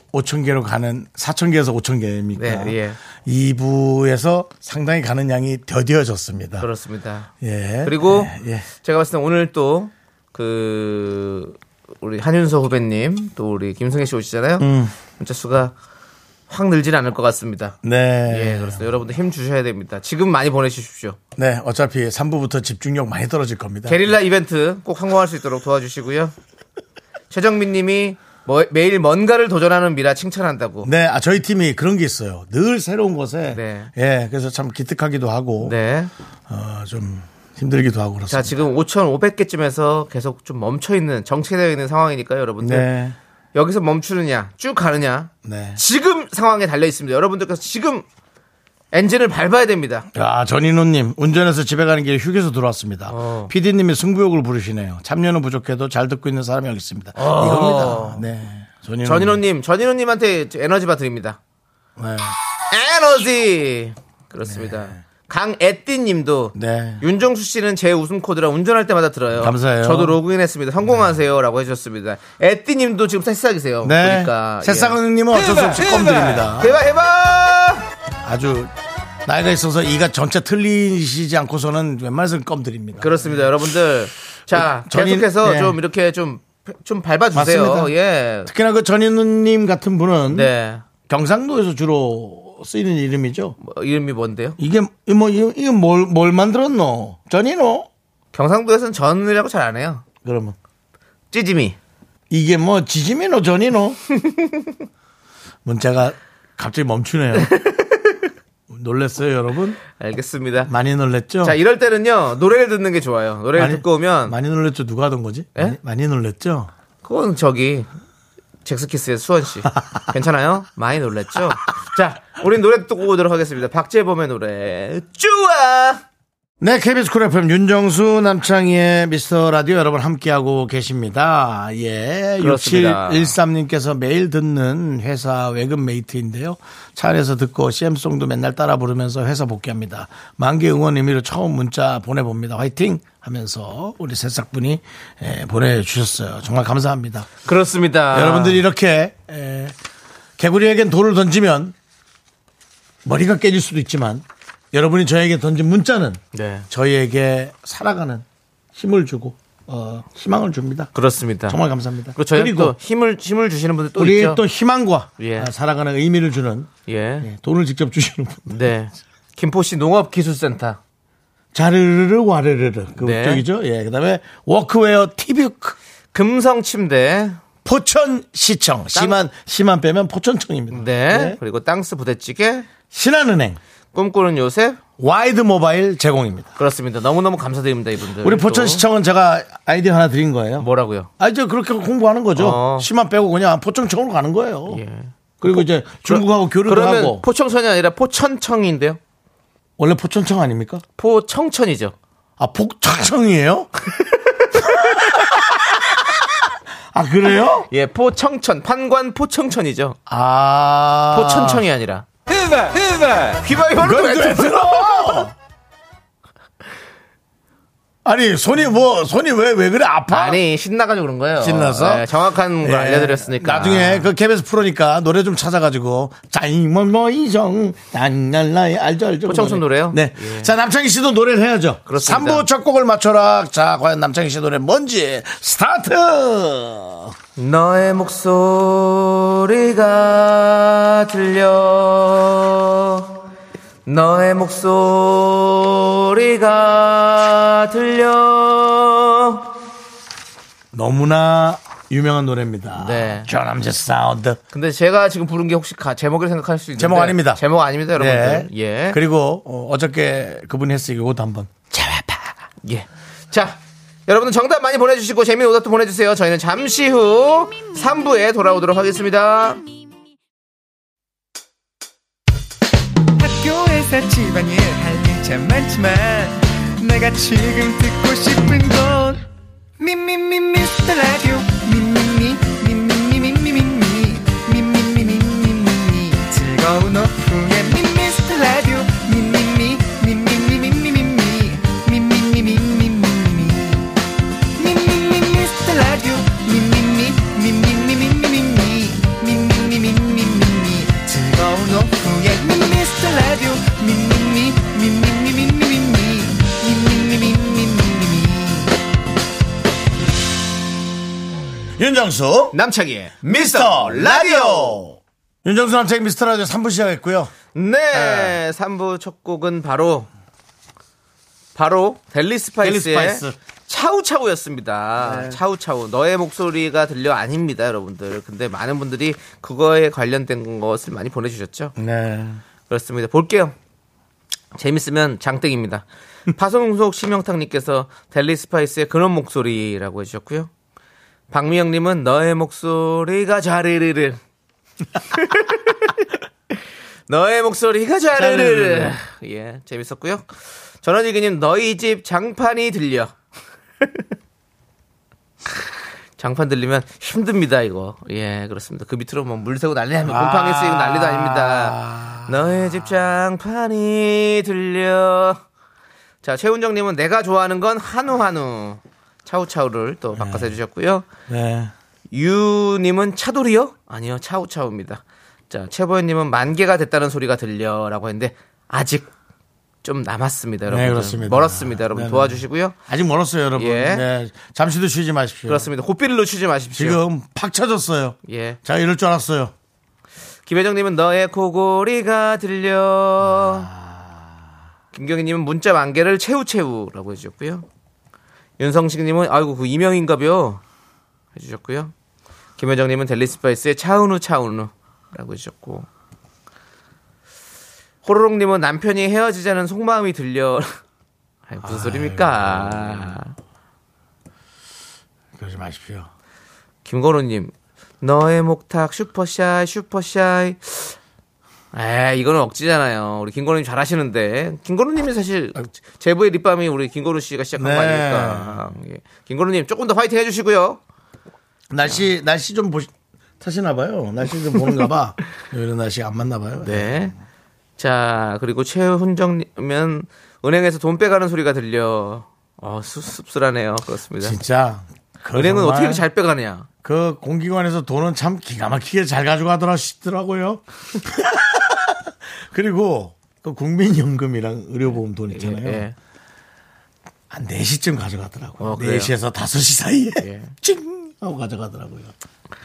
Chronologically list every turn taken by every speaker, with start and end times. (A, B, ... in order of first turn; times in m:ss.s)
0:00.1-0:06.7 A
0:02.4-0:03.0 B
0:06.6-0:07.3 B
0:07.4-0:08.7 A
0:07.8-0:15.7 B
0:14.6-0:14.9 A
0:16.5-0:21.2 B
0:17.8-0:18.9 A
0:21.4-0:24.1 A
0:23.9-0:26.3 B
0:27.3-0:30.9 B
0:30.8-0:35.8 A
0:33.5-0:33.9 B
0:35.6-0:36.1 B
0:36.5-0:38.6 A
0:38.3-0:42.9 B
0:42.6-0:43.2 A
0:43.5-0:48.0 B
0:45.4-0:45.8 A
0:48.9-0:50.1 B
0:50.1-0:59.4 A
0:53.1-0:53.5 B
0:57.2-0:58.2 B
0:59.0-1:01.4 B
1:02.0-1:02.3 A
1:02.7-1:15.0 B
1:04.4-1:05.0 A
1:06.5-1:07.0 A
1:09.4-1:10.2 A
1:13.8-1:16.8 A
1:16.6-1:17.8 B
1:18.2-1:18.7 A
1:19.2-1:23.3 A
1:23.0-1:28.5 B
1:24.5-1:25.8 A
1:27.3-1:27.9 A
1:28.4-1:30.5 A
1:30.3-1:30.8 B
1:31.1-1:33.6 A
1:33.6-1:34.6 B
1:34.6-1:37.9 A
1:38.3-1:40.0 B
1:40.2-1:40.5 A
1:41.3-1:41.8 B
1:42.3-1:44.0 A
1:44.2-1:44.5 B
1:45.6-1:47.5 A
1:47.4-1:48.2 B
1:48.7-1:49.8 A
1:50.0-1:50.7 B
1:50.7-1:51.6 A
1:51.4-1:54.3 B
1:53.5-1:56.7 A
1:57.0-1:57.9 B
1:58.6-2:06.0 B
2:06.6-2:27.3 A
2:12.4-2:13.3 B
2:27.4-2:28.6 B
2:28.1-2:29.7 A
2:30.4-2:31.7 A
2:33.0-2:38.2 A
2:36.3-2:36.6 B
2:38.7-2:40.9 A
2:40.9-2:41.6 B
2:41.5-2:42.7 A
2:42.2-2:44.4 B
2:44.0-2:46.7 A
2:45.2-2:45.5 B
2:46.9-2:47.3 B
2:47.2-2:48.6 A
2:48.5-2:50.8 B
2:51.5-2:55.8 A
2:53.0-2:53.4 B
2:56.1-2:57.4 B
2:57.6-3:01.4 A
2:58.9-2:59.2 B
3:00.7-3:02.7 B
3:02.9-3:03.6 A
3:03.9-3:04.8 B
3:05.0-3:06.5 A
3:06.6-3:08.8 B
3:08.2-3:10.7 A
3:10.6-3:11.1 B
3:11.2-3:14.8 A
3:12.4-3:12.9 B
3:14.7-3:19.0 B
3:15.4-3:17.2 A
3:19.8-3:20.8 A
3:21.0-3:21.9 B
3:22.4-3:23.7 A
3:24.4-3:25.3 B
3:24.6-3:26.2 A
3:26.9-3:27.7 A
3:27.7-3:30.0 B
3:30.1-3:31.6 A
3:31.1-3:32.1 B
3:32.9-3:35.2 B
3:33.7-3:35.3 A
3:38.0-3:40.4 A
3:40.1-3:44.1 B
3:41.4-3:57.1 A
3:49.2-3:50.5 B
3:51.9-3:52.5 B
3:57.4-4:03.1 B
4:03.8-4:09.4 B
4:10.7-4:14.4 A
4:12.8-4:13.3 B
4:14.5-4:19.0 B
4:16.8-4:17.4 A
4:17.9-4:22.2 A
4:22.6-4:29.6 B
4:33.2-4:39.1 C
4:39.8-4:46.4 C
4:46.9-4:53.4 C
4:54.6-5:08.4 C
5:11.8-5:12.6 A
5:12.5-5:14.8 B
5:13.2-5:17.3 A
5:17.5-5:20.1 B
5:17.9-5:18.4 A
5:21.5-5:31.7 B
5:22.6-5:23.4 A
5:25.0-5:25.4 A
5:31.8-5:32.4 A
5:32.7-5:33.5 B
5:34.5-5:40.5 B
5:41.3-5:44.2 B
5:45.1-5:45.9 B
5:47.1-5:50.3 B
5:48.2-5:49.0 A
5:50.8-5:53.1 B
5:56.2-6:05.4 B
6:00.0-6:02.3 A
6:06.2-6:11.1 B
6:10.1-6:10.5 A
6:11.3-6:11.7 A
6:12.1-6:19.1 B
6:19.8-6:22.8 B
6:20.7-6:25.7 A
6:23.6-6:24.0 B
6:25.5-6:27.0 B
6:26.7-6:29.5 A
6:28.3-6:28.6 B
6:30.4-6:33.7 B
6:33.2-6:34.1 A
6:34.9-6:37.6 B
6:38.6-6:40.6 B
6:41.3-6:41.9 B
6:42.6-6:45.9 B
6:48.0-6:50.8 B
6:51.5-6:53.3 B
6:51.6-6:53.2 A
6:55.4-6:56.1 A
6:56.8-7:01.0 B
7:01.7-7:10.8 B
7:07.6-7:08.7 A
7:11.7-7:17.2 A
7:16.6-7:17.1 B
7:17.8-7:24.4 B
7:24.2-7:26.0 A
7:25.3-7:26.7 B
7:26.8-7:35.8 A
7:35.3-7:35.9 B
7:37.3-7:42.1 A
7:38.6-7:39.1 B
7:40.2-7:40.5 B